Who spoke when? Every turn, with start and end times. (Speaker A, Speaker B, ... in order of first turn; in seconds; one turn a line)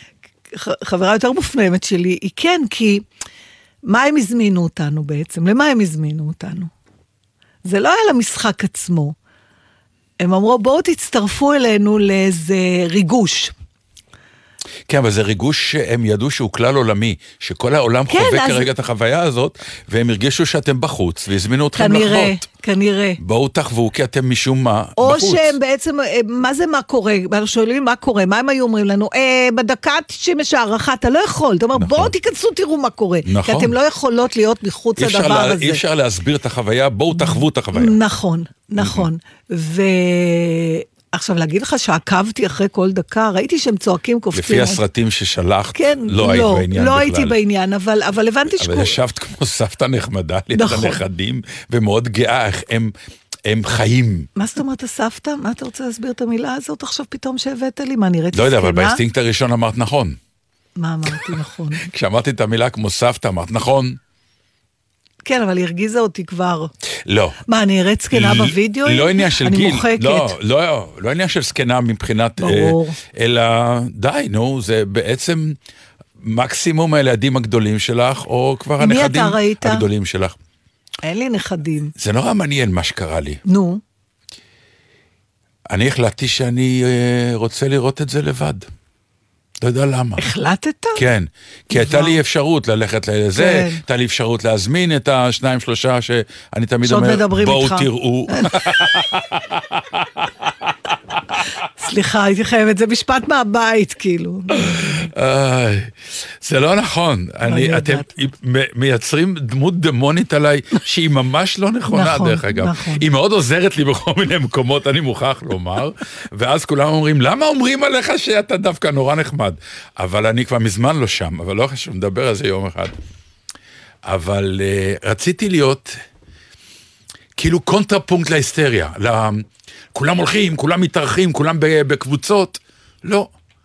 Speaker A: 0.5-3.0
Speaker A: 3.9-6.7
Speaker A: 7.6-9.1
Speaker A: 10.2-13.5
Speaker B: 14.9-22.4
Speaker A: 18.1-18.7
Speaker A: 21.7-23.2
Speaker B: 23.2-25.6
Speaker A: 25.0-35.8
Speaker B: 31.8-32.1
Speaker B: 33.2-33.8
Speaker B: 35.0-38.0
Speaker A: 37.1-44.8
Speaker B: 38.8-39.1
Speaker B: 44.3-47.4
Speaker A: 45.8-49.0
Speaker B: 48.5-52.9
Speaker A: 50.5-51.0
Speaker B: 53.5-54.3
Speaker A: 54.4-59.0
Speaker B: 58.3-60.2
Speaker A: 60.8-61.8
Speaker B: 61.8-64.0
Speaker A: 65.2-66.7
Speaker B: 67.0-67.4
Speaker A: 67.5-70.3
Speaker B: 68.1-75.6
Speaker A: 72.4-73.0
Speaker B: 76.2-80.4
Speaker A: 78.8-79.9
Speaker A: 81.0-81.9
Speaker B: 82.0-83.4
Speaker A: 83.5-83.8
Speaker B: 85.7-88.7
Speaker B: 89.6-90.2
Speaker A: 90.2-91.0
Speaker B: 91.0-100.7
Speaker A: 91.7-92.2
Speaker A: 93.3-93.8
Speaker A: 96.8-98.7
Speaker A: 101.8-105.1
Speaker B: 104.5-122.9
Speaker A: 107.5-108.1
Speaker A: 111.9-113.0
Speaker B: 124.0-126.0
Speaker B: 127.4-133.3